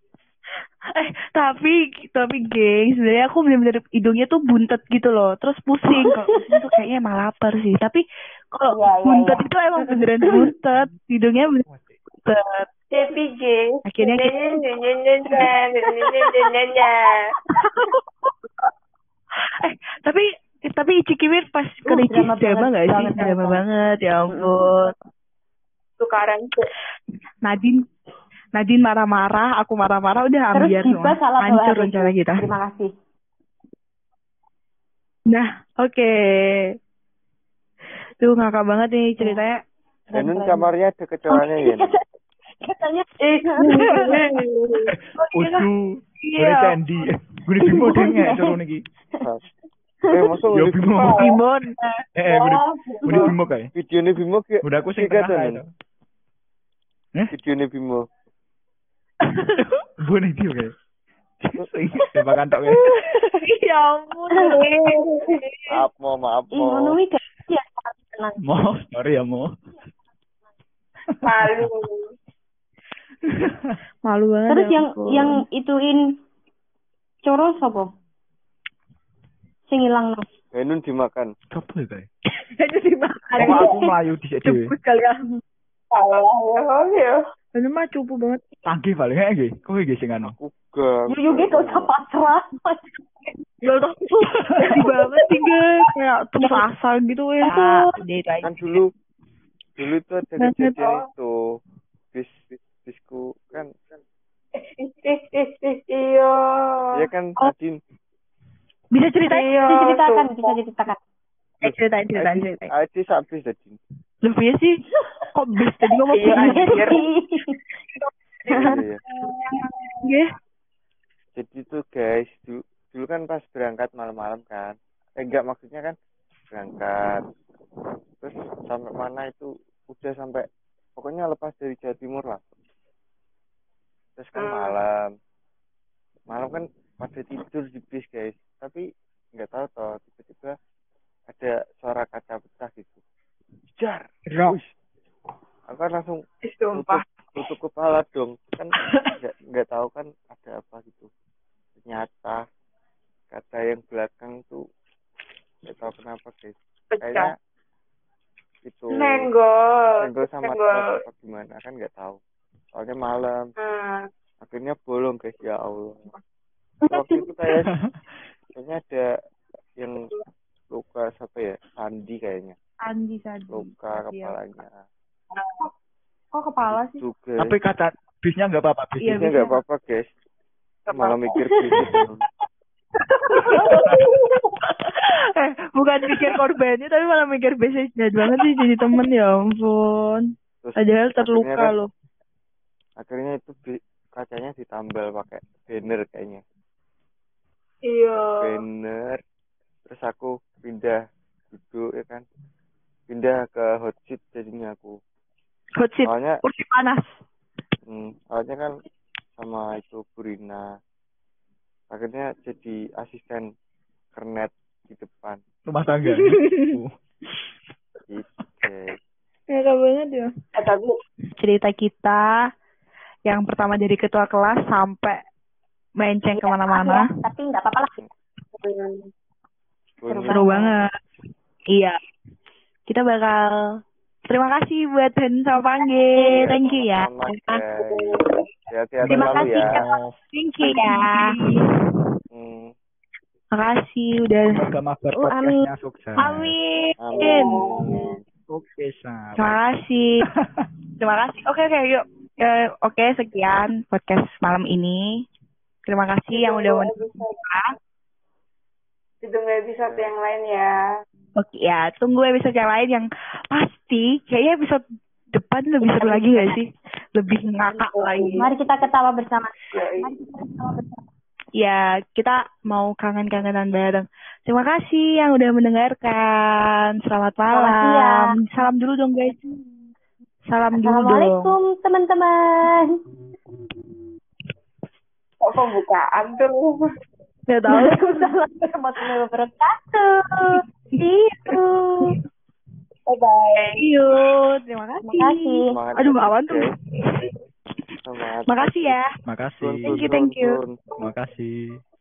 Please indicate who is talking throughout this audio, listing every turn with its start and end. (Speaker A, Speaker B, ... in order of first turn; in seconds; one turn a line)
Speaker A: 0.9-11.6
Speaker B: 6.0-6.4
Speaker B: 8.7-10.4
Speaker A: 12.2-12.7
Speaker C: 12.9-17.4
Speaker A: 13.9-14.6
Speaker A: 15.3-16.4
Speaker A: 17.5-18.3
Speaker A: 19.4-24.9
Speaker B: 21.9-23.6
Speaker B: 24.3-24.9
Speaker C: 26.0-26.7
Speaker A: 27.4-27.9
Speaker A: 28.6-32.5
Speaker B: 30.5-32.9
Speaker A: 35.3-36.8
Speaker A: 38.2-39.6
Speaker B: 40.1-40.7
Speaker D: 40.1-41.9
Speaker B: 41.3-42.0
Speaker B: 42.6-44.2
Speaker C: 43.4-45.0
Speaker A: 43.8-44.2
Speaker E: 45.3-48.8
Speaker A: 45.4-45.7
Speaker A: 46.2-46.8
Speaker B: 47.6-48.5
Speaker B: 50.1-50.4
Speaker D: 50.1-51.2
Speaker E: 50.5-51.4
Speaker C: 51.0-51.4
Speaker A: 51.2-51.8
Speaker E: 52.2-53.7
Speaker C: 52.3-53.3
Speaker D: 53.8-55.6
Speaker E: 54.6-55.7
Speaker D: 57.3-58.1
Speaker E: 60.0-60.7
Speaker E: 61.4-62.8
Speaker A: 63.0-64.9
Speaker C: 64.3-65.5
Speaker A: 65.5-65.8
Speaker D: 65.7-67.0
Speaker B: 66.5-68.4
Speaker E: 68.4-69.5
Speaker C: 71.2-72.1
Speaker E: 71.3-71.7
Speaker E: 73.4-73.7
Speaker A: 74.1-75.4
Speaker B: 74.5-76.0
Speaker B: 77.2-77.9
Speaker B: 79.7-80.3
Speaker D: 80.5-81.3
Speaker E: 81.5-82.1
Speaker A: 82.4-83.8
Speaker B: 83.3-83.8
Speaker E: 83.4-84.7
Speaker C: 83.4-83.7
Speaker A: 84.4-85.4
Speaker C: 85.9-87.2
Speaker A: 87.5-88.4
Speaker E: 88.7-90.3
Speaker D: 90.2-91.9
Speaker B: 91.1-92.8
Speaker A: 93.6-98.8
Speaker B: 97.4-97.8
Speaker D: 98.4-98.9
Speaker D: 99.8-101.3
Speaker A: 100.4-100.8
Speaker C: 100.8-101.0
Speaker D: 102.1-103.8
Speaker C: 104.6-107.1
Speaker D: 106.9-107.8
Speaker A: 108.9-109.5
Speaker C: 109.3-110.6
Speaker B: 109.3-111.0
Speaker A: 111.6-112.7
Speaker D: 111.6-113.8
Speaker A: 114.2-114.8
Speaker A: 115.3-117.0
Speaker C: 116.1-117.0
Speaker B: 116.2-117.6
Speaker A: 117.8-118.8
Speaker B: 118.5-118.8
Speaker D: 118.5-119.0
Speaker C: 119.2-120.0
Speaker A: 119.5-120.3
Speaker D: 121.4-126.0
Speaker D: 126.5-127.2
Speaker D: 128.2-130.4
Speaker D: 131.0-132.4
Speaker D: 134.2-135.1
Speaker C: 134.3-134.8
Speaker D: 136.3-140.6
Speaker D: 141.3-143.0
Speaker D: 143.8-144.7
Speaker D: 145.7-146.2
Speaker C: 146.4-147.1
Speaker D: 146.7-151.1
Speaker D: 151.8-152.4
Speaker D: 153.3-154.6
Speaker D: 155.6-157.3
Speaker C: 156.9-157.3
Speaker D: 158.6-159.3
Speaker C: 158.9-161.0
Speaker D: 160.0-162.2
Speaker D: 162.7-163.4
Speaker C: 163.6-164.1
Speaker D: 164.4-166.1
Speaker D: 166.9-167.8
Speaker D: 168.6-169.1
Speaker D: 169.8-170.1
Speaker D: 170.7-172.6
Speaker A: 172.9-174.4
Speaker D: 173.5-174.8
Speaker C: 175.3-175.7
Speaker A: 176.3-177.0
Speaker D: 176.7-177.6
Speaker E: 177.4-179.3
Speaker A: 179.0-179.6
Speaker D: 179.1-180.1
Speaker C: 180.9-181.2
Speaker D: 180.9-182.3
Speaker A: 183.0-191.9
Speaker C: 183.7-184.5
Speaker D: 190.6-191.7
Speaker D: 193.0-196.4
Speaker C: 197.8-198.7
Speaker D: 198.4-199.2
Speaker D: 199.9-201.0
Speaker D: 201.5-202.2
Speaker D: 203.1-205.0
Speaker A: 205.8-207.1
Speaker D: 206.0-206.4
Speaker D: 207.9-208.8
Speaker D: 209.4-210.7
Speaker D: 211.9-213.5
Speaker D: 214.1-215.4
Speaker E: 215.7-216.9
Speaker A: 216.0-216.8
Speaker D: 218.1-218.9
Speaker A: 219.5-220.3
Speaker C: 220.5-221.0
Speaker A: 221.4-222.5
Speaker A: 223.3-225.2
Speaker A: 226.0-227.0
Speaker B: 226.3-227.9
Speaker C: 228.6-229.1
Speaker D: 230.0-230.5
Speaker B: 230.1-230.8
Speaker A: 230.3-230.9
Speaker A: 231.7-232.0
Speaker A: 232.9-237.6
Speaker D: 236.3-238.1
Speaker C: 237.8-238.4
Speaker D: 238.7-239.8
Speaker E: 239.1-240.1
Speaker B: 239.1-239.8
Speaker A: 239.1-241.6
Speaker B: 240.6-241.3
Speaker D: 242.3-242.7
Speaker A: 243.5-244.6
Speaker E: 244.5-246.5
Speaker B: 245.2-245.7
Speaker A: 246.2-247.6
Speaker D: 247.0-248.1
Speaker C: 247.1-248.2
Speaker E: 248.5-249.6
Speaker A: 249.4-250.2
Speaker A: 251.0-255.2
Speaker A: 255.9-257.8
Speaker C: 256.3-257.4
Speaker C: 259.2-260.8
Speaker D: 259.8-260.1
Speaker A: 261.4-264.8
Speaker A: 265.3-268.4
Speaker B: 265.9-266.5
Speaker C: 267.7-268.5
Speaker B: 268.4-271.0
Speaker C: 269.7-270.1
Speaker A: 271.6-279.6
Speaker B: 277.5-278.3
Speaker A: 280.5-281.6
Speaker B: 280.8-283.0
Speaker C: 285.4-286.9
Speaker A: 287.5-288.3
Speaker B: 287.7-292.2
Speaker A: 291.5-292.1
Speaker C: 293.1-293.9
Speaker A: 293.8-297.3
Speaker B: 295.0-295.8
Speaker D: 295.7-296.7
Speaker D: 298.0-299.0
Speaker A: 298.5-299.1
Speaker E: 299.2-300.0
Speaker D: 299.6-300.8
Speaker A: 299.9-300.6
Speaker E: 301.0-301.8